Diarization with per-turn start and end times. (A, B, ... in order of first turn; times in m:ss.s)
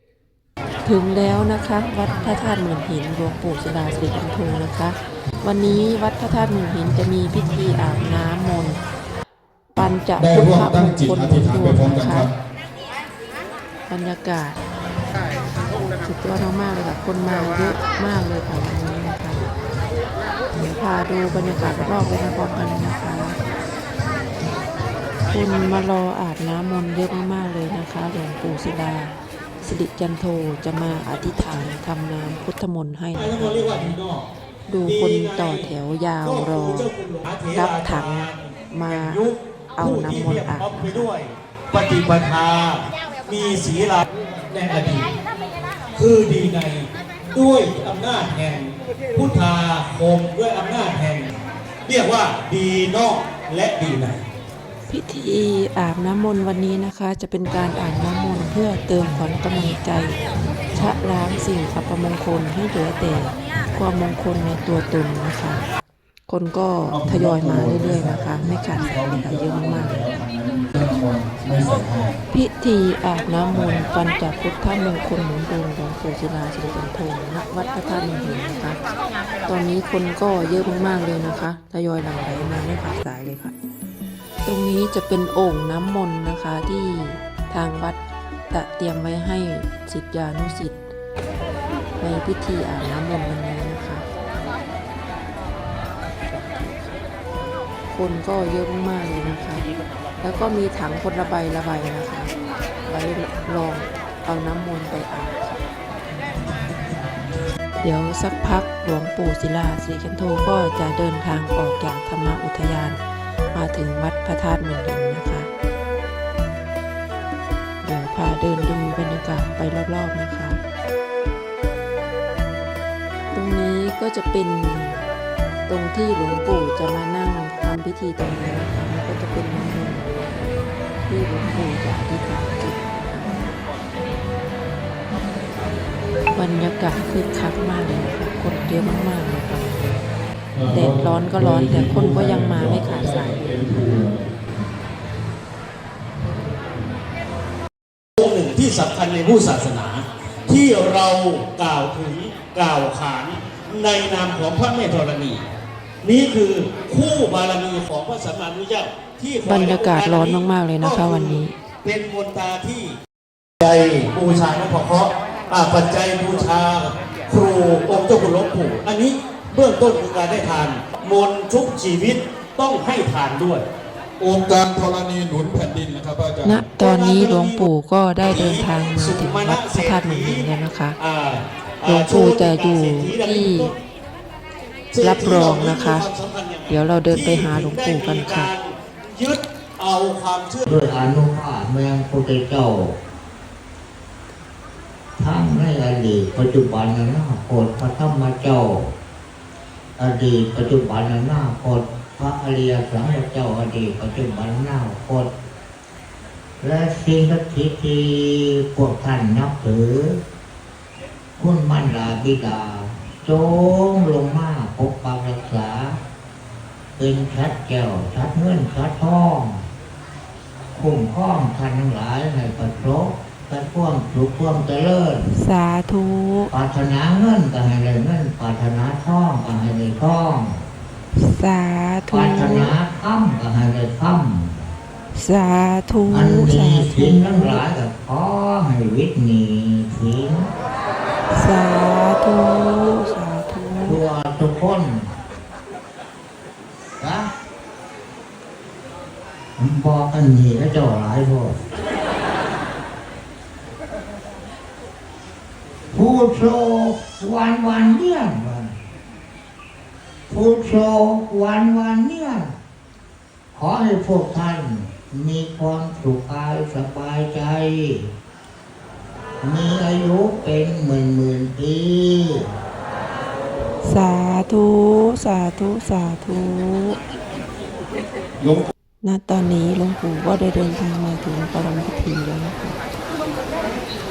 0:00.8-0:08.8 A
0:09.7-0:12.3 A
0:10.2-0:12.3 B
0:13.9-0:14.6 A
0:15.9-0:19.5 A
0:20.5-0:23.4 A
0:25.3-0:33.9 A
0:33.2-0:34.3 C
0:34.7-0:36.9 A
0:34.8-0:45.1 C
0:37.5-0:39.2 A
0:39.8-0:41.1 A
0:45.9-0:51.3 C
0:51.8-0:54.2 C
0:54.9-1:00.2 A
1:00.7-1:05.6 A
1:06.3-1:10.1 A
1:06.9-1:12.2 B
1:12.3-1:18.8 A
1:13.5-1:13.8 B
1:19.4-1:23.5 A
1:24.4-1:30.8 A
1:32.0-1:34.0 A
1:36.3-1:37.0 A
1:37.9-1:39.6 A
1:40.2-1:42.3 A
1:42.8-1:45.6 A
1:47.8-1:53.0 A
1:53.5-1:55.5 A
1:57.8-2:00.6 A
2:03.3-2:05.0 A
2:05.7-2:13.6 A
2:16.3-2:19.9 A
2:20.5-2:24.3 B
2:20.7-2:23.5 A
2:28.2-2:35.4 C
2:36.0-2:42.9 C
2:39.4-2:41.5 A
2:43.6-2:53.6 C
2:54.2-2:56.6 B
2:56.4-3:01.0 A
2:56.8-2:57.7 C
2:58.2-3:03.8 C
3:01.8-3:03.7 A
3:04.9-3:10.8 C
3:05.0-3:06.1 A
3:06.7-3:08.5 A
3:10.7-3:12.9 D
3:15.2-3:18.9 D
3:20.0-3:25.3 D
3:26.6-3:30.2 D
3:31.4-3:36.0 D
3:37.0-3:39.6 D
3:40.7-3:45.2 D
3:45.2-3:46.5 A
3:46.5-3:50.6 D
3:51.1-3:52.7 A
3:52.1-3:54.6 D
3:55.1-3:57.6 A
3:56.1-4:00.5 D
4:01.3-4:04.0 A
4:03.8-4:05.1 D
4:07.0-4:07.3 D
4:09.6-4:11.6 D
4:15.9-4:18.7 D
4:20.3-4:22.5 D
4:23.5-4:28.1 D
4:29.4-4:32.4 D
4:33.8-4:37.0 A
4:38.4-4:38.7 B
4:39.0-4:42.8 A